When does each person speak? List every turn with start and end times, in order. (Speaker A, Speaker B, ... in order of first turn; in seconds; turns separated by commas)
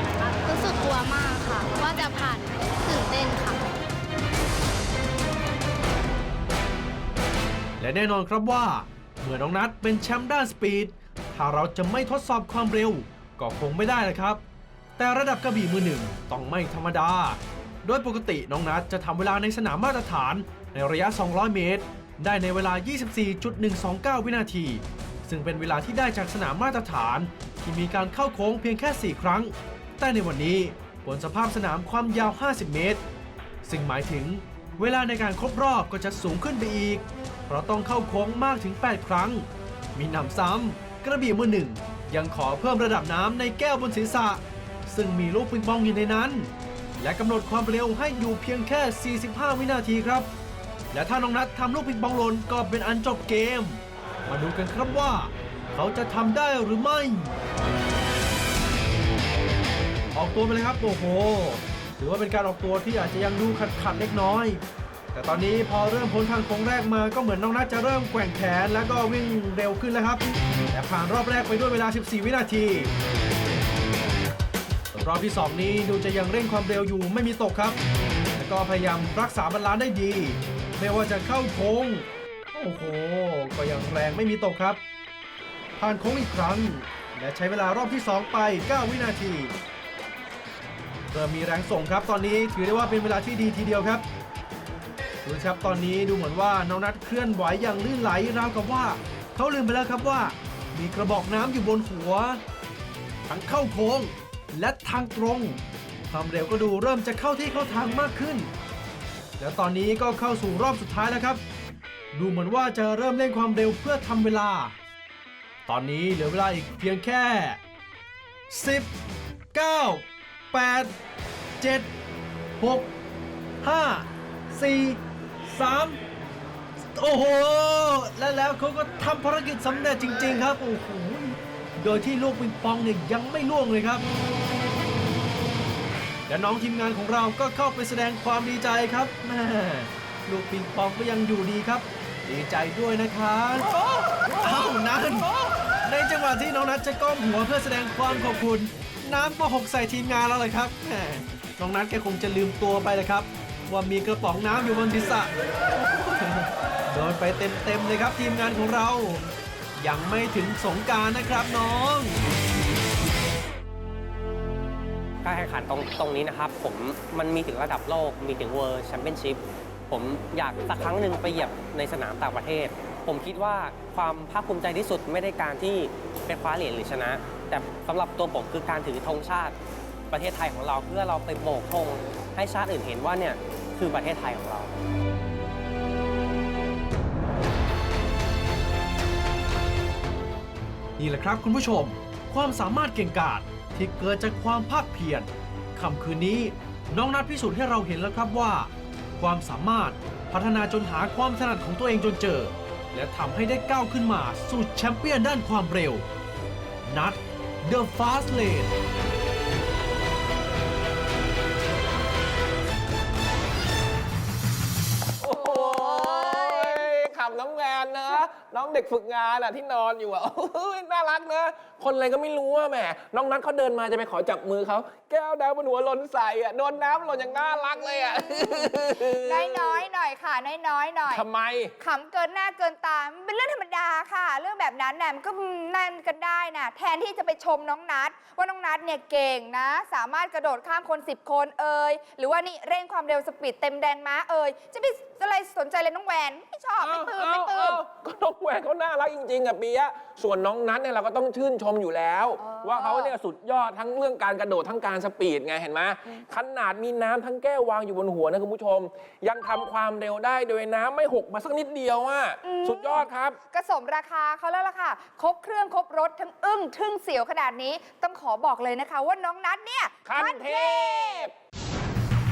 Speaker A: 0.4-3.6, Speaker B: 7.8-14.4, Speaker B: 15.0-33.0, Speaker B: 33.6-50.3, Speaker B: 50.9-57.4, Speaker B: 60.1-72.9, Speaker B: 74.9-77.8, Speaker B: 78.4-84.8, Speaker B: 85.8-89.5, Speaker B: 91.1-94.0, Speaker B: 95.2-102.4, Speaker B: 103.3-108.5, Speaker B: 109.4-111.4, Speaker B: 112.1-114.8, Speaker B: 115.7-117.6, Speaker B: 118.5-118.9, Speaker B: 119.5-120.9, Speaker B: 121.6-121.9, Speaker B: 122.6-122.9, Speaker B: 123.6-126.0, Speaker B: 126.8-134.1, Speaker B: 136.3-143.8, Speaker B: 144.4-145.3, Speaker B: 145.8-162.2, Speaker C: 165.2-179.6, Speaker C: 180.1-184.7, Speaker B: 191.0-206.1, Speaker B: 206.9-208.7, Speaker D: 215.2-229.8, Speaker E: 215.6-216.4, Speaker E: 227.6-231.2, Speaker D: 231.1-231.8, Speaker E: 231.8-247.8, Speaker D: 246.8-263.4, Speaker E: 252.4-253.1, Speaker E: 262.4-271.3, Speaker D: 270.1-271.3